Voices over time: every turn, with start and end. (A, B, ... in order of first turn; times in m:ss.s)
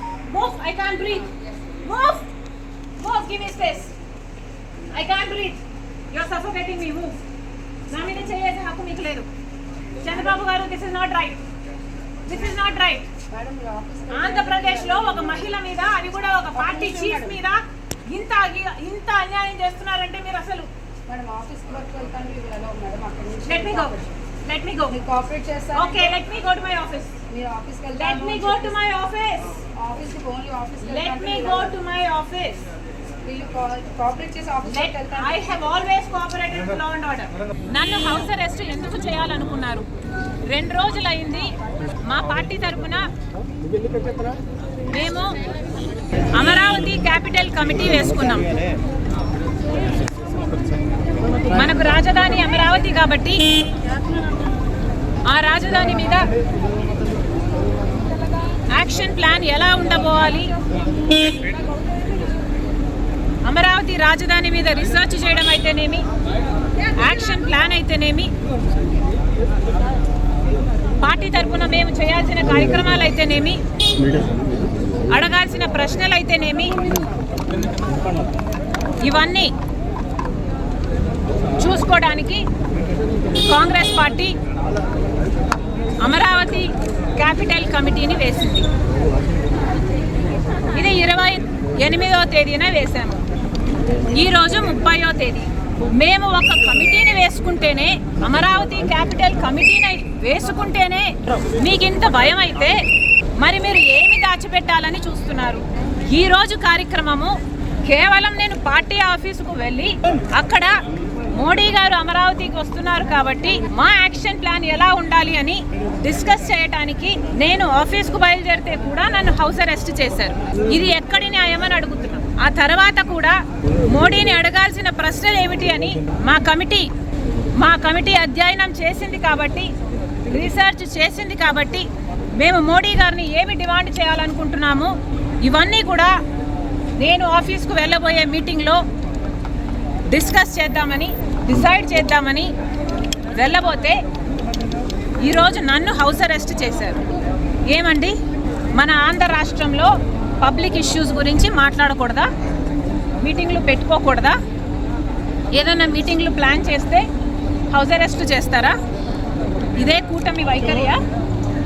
0:00.3-0:01.3 A
0:01.8-0:02.3 A
0:03.0-0:03.9 A
0:04.9-0:07.2 A
0:07.9-0:09.3 A
0:10.0-0:11.4 A
0:12.2-0:13.1 A
0:13.3-0:15.5 B
0:14.1-0:20.7 A
0:16.5-0:17.4 B
0:21.1-0:24.1 B
0:23.5-0:25.0 A
0:24.9-0:26.2 B
0:25.7-0:27.1 A
0:27.3-0:28.8 B
0:28.0-0:29.6 A
0:29.7-0:31.7 B
0:30.8-0:32.6 A
0:33.2-0:35.5 B
0:34.7-0:39.9 A
0:40.5-0:43.1 A
0:44.9-0:45.4 A
0:46.3-0:48.5 A
0:51.5-0:53.5 A
0:55.3-0:56.3 A
0:58.7-1:00.5 A
1:03.4-1:06.0 A
1:07.0-1:08.3 A
1:11.0-1:13.6 A
1:15.1-1:16.8 A
1:19.0-1:19.5 A
1:21.6-1:22.4 A
1:23.5-1:24.4 A
1:26.0-1:28.7 A
1:30.7-1:33.2 A
1:34.1-1:42.8 A
1:43.4-1:50.7 A
1:51.3-2:06.9 A
2:07.6-2:09.7 A
2:10.3-2:16.2 A
2:17.0-2:18.8 A
2:20.1-2:22.5 A
2:23.3-2:24.0 A
2:25.2-2:27.0 A
2:27.7-2:28.2 A
2:28.7-2:32.3 A
2:33.2-2:34.4 A
2:35.5-2:37.1 A
2:37.7-2:38.8 A
2:39.8-2:41.0 A